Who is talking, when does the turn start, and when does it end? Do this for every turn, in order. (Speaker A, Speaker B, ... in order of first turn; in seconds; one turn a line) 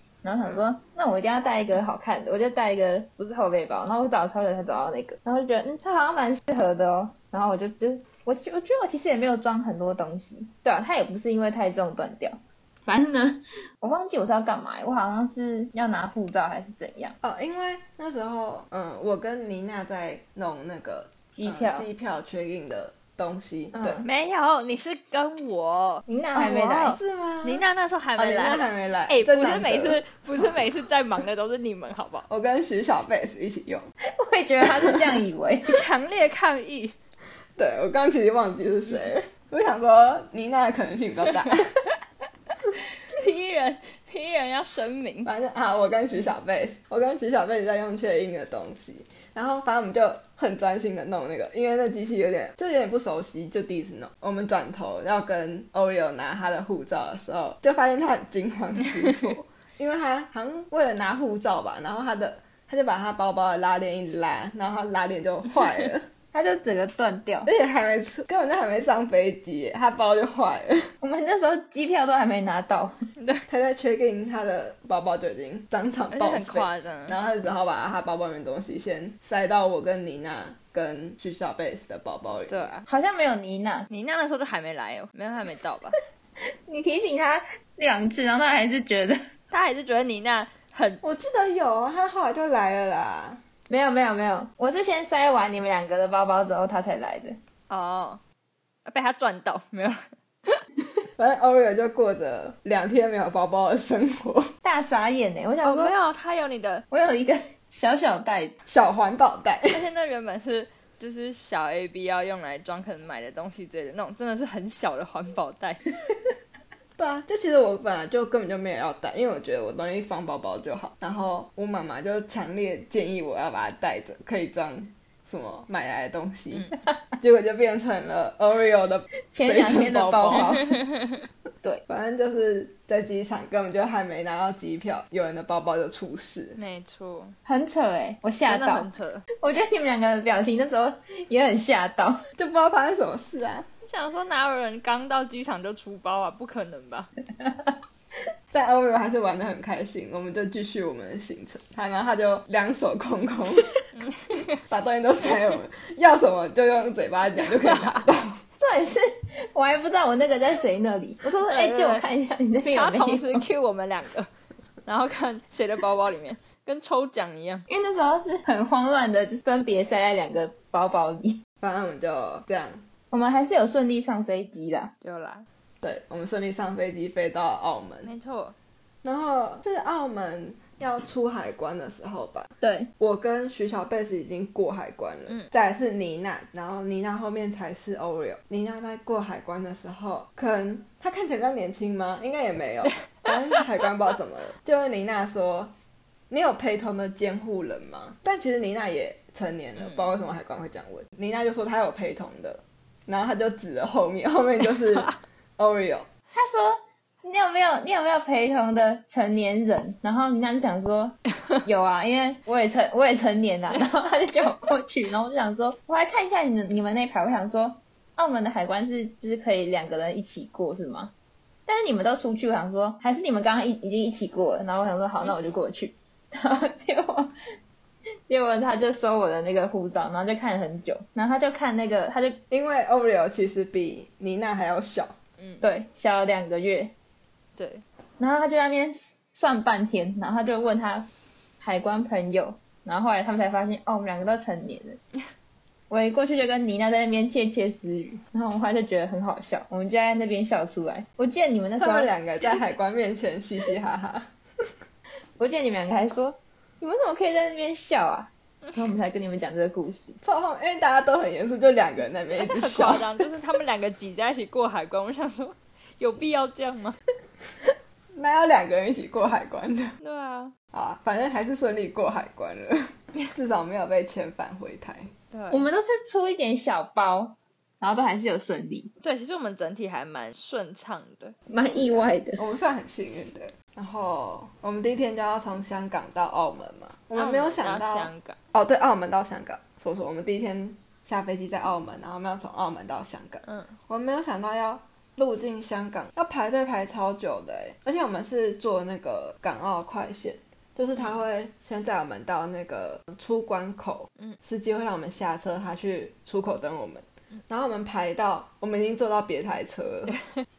Speaker A: 0.2-17.1
Speaker B: 17.2-24.0
Speaker A: 21.3-21.9
Speaker A: 23.7-24.1
Speaker C: 24.0-32.3
Speaker A: 26.1-27.0
Speaker B: 26.9-27.6
Speaker B: 28.2-30.6
Speaker B: 32.3-33.9
Speaker A: 34.1-35.8
Speaker C: 35.7-36.9
Speaker B: 37.5-41.7
Speaker C: 41.2-41.5
Speaker C: 43.1-45.3
Speaker B: 45.2-66.1
Speaker A: 66.3-67.5
Speaker B: 67.5-70.9
Speaker A: 71.0-72.9
Speaker C: 73.2-73.5
Speaker B: 73.5-82.7
Speaker C: 76.1-77.2
Speaker C: 82.5-82.9
Speaker A: 82.9-83.9
Speaker C: 83.9-86.0
Speaker A: 86.7-89.2
Speaker C: 89.5-91.0
Speaker B: 91.0-93.4
Speaker A: 93.7-97.4
Speaker C: 97.7-98.2
Speaker C: 98.8-100.6
Speaker B: 101.2-104.5
Speaker A: 104.6-105.9
Speaker C: 105.6-106.8
Speaker A: 106.9-108.5
Speaker B: 108.7-109.8
Speaker C: 109.7-115.8
Speaker B: 117.0-126.7
Speaker B: 127.2-130.5
Speaker A: 129.3-130.8
Speaker C: 130.6-131.1
Speaker B: 131.9-136.6
Speaker C: 136.6-137.3
Speaker A: 137.4-138.9
Speaker C: 138.4-139.2
Speaker A: 139.4-142.2
Speaker B: 142.4-143.7
Speaker C: 143.9-147.1
Speaker A: 147.4-147.7
Speaker B: 148.5-153.7
Speaker C: 153.9-154.6
Speaker B: 154.7-158.4
Speaker C: 157.4-158.1
Speaker A: 158.6-163.5
Speaker C: 161.2-162.1
Speaker C: 162.6-164.3
Speaker C: 164.8-167.7
Speaker A: 167.7-171.4
Speaker B: 171.6-172.8
Speaker A: 173.1-174.9
Speaker C: 175.0-175.4
Speaker B: 175.8-178.1
Speaker C: 178.0-178.6
Speaker B: 179.0-195.7
Speaker A: 182.6-182.9
Speaker C: 193.2-193.6
Speaker B: 196.3-206.1
Speaker C: 199.8-200.1
Speaker A: 206.3-221.1
Speaker A: 221.7-227.3
Speaker A: 228.3-232.4
Speaker B: 232.5-235.2
Speaker C: 235.4-235.6
Speaker A: 235.6-236.9
Speaker C: 237.6-237.8
Speaker A: 238.2-241.1
Speaker A: 241.6-245.0
Speaker A: 245.9-252.1
Speaker B: 251.8-254.3
Speaker A: 255.4-260.2
Speaker B: 260.2-263.2
Speaker C: 262.4-267.0
Speaker B: 268.1-269.9
Speaker C: 270.0-270.5
Speaker B: 270.7-275.1
Speaker C: 275.3-275.7
Speaker A: 275.5-278.9
Speaker C: 279.0-282.0
Speaker A: 281.5-282.4
Speaker B: 282.4-310.1
Speaker C: 287.1-288.4